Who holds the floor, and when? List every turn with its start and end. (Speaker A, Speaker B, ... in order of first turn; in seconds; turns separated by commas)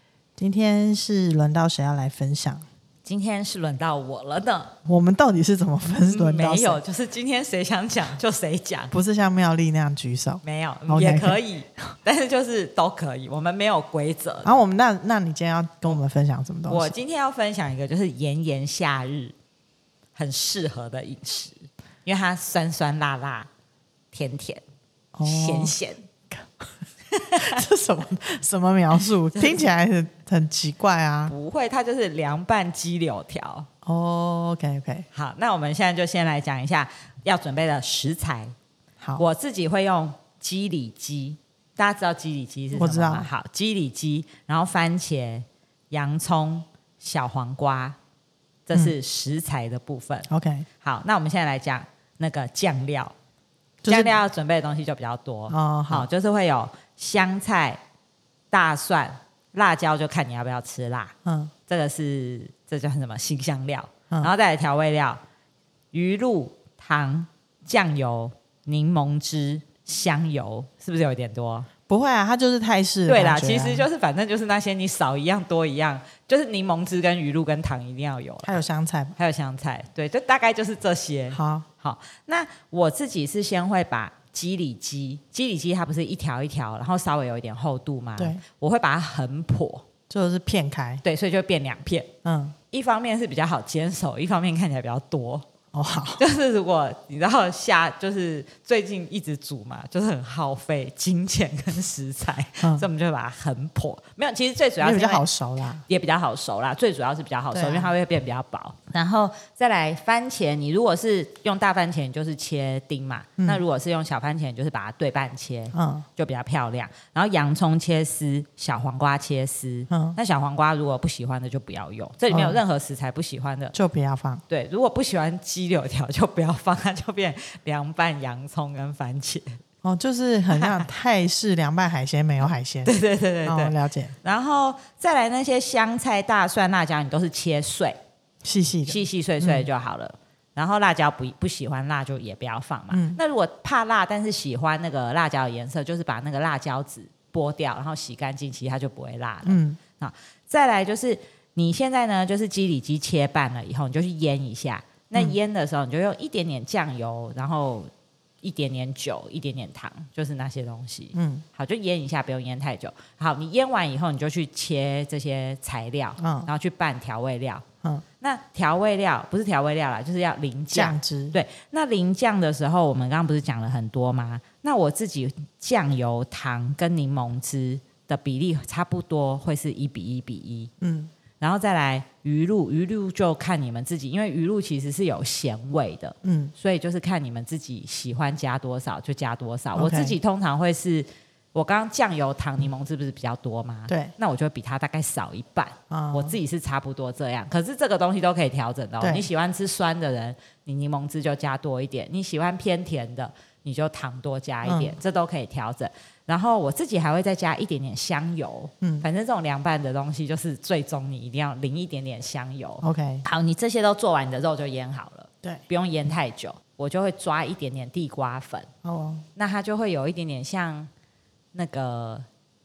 Speaker A: 0.4-2.6, Speaker B: 3.0-4.7, Speaker A: 4.8-6.8, Speaker B: 6.1-8.9, Speaker A: 8.9-11.4, Speaker B: 10.4-14.5, Speaker A: 14.4-16.9, Speaker B: 16.7-19.3, Speaker B: 20.1-23.5, Speaker B: 24.1-24.6, Speaker A: 25.1-25.7, Speaker B: 25.2-26.0, Speaker A: 26.3-26.7, Speaker B: 27.1-27.6, Speaker A: 27.4-31.3, Speaker B: 29.3-29.6, Speaker B: 31.3-33.7, Speaker A: 33.8-35.1, Speaker B: 35.1-38.5, Speaker B: 39.2-48.0, Speaker A: 42.7-43.3, Speaker B: 48.6-50.3, Speaker A: 50.3-50.7, Speaker B: 50.8-53.1, Speaker A: 53.8-54.2, Speaker B: 53.9-57.8, Speaker A: 55.5-56.1, Speaker B: 58.5-61.1, Speaker A: 61.2-61.5, Speaker B: 61.7-65.2, Speaker B: 65.9-71.7, Speaker A: 71.9-73.8, Speaker B: 73.1-78.6, Speaker A: 78.4-79.1, Speaker B: 79.2-89.8, Speaker A: 81.3-81.7, Speaker A: 90.1-91.0, Speaker B: 91.0-92.1, Speaker A: 92.2-92.5, Speaker B: 92.7-95.4, Speaker A: 95.7-96.2, Speaker B: 96.2-105.2, Speaker A: 102.6-102.8, Speaker A: 104.8-105.8, Speaker B: 105.9-123.7, Speaker A: 107.5-107.9, Speaker A: 115.7-116.0, Speaker A: 119.9-120.2, Speaker A: 122.3-122.6, Speaker A: 123.7-124.4, Speaker B: 124.5-129.6, Speaker A: 129.8-134.1, Speaker B: 130.5-130.9, Speaker B: 132.8-138.0, Speaker A: 138.4-139.7, Speaker B: 138.9-157.9, Speaker A: 142.9-143.2, Speaker A: 149.4-149.8, Speaker B: 158.4-167.6, Speaker A: 161.1-161.4, Speaker A: 166.2-166.5, Speaker B: 168.2-180.7, Speaker A: 170.7-171.3, Speaker A: 180.8-181.1, Speaker B: 181.4-218.7, Speaker A: 186.2-186.5, Speaker A: 189.8-190.2, Speaker A: 193.9-194.1, Speaker A: 195.9-196.3, Speaker A: 199.0-199.3, Speaker A: 204.6-204.9, Speaker A: 208.8-209.1, Speaker A: 212.8-213.2, Speaker A: 218.8-219.2, Speaker B: 219.3-220.9, Speaker B: 221.5-222.2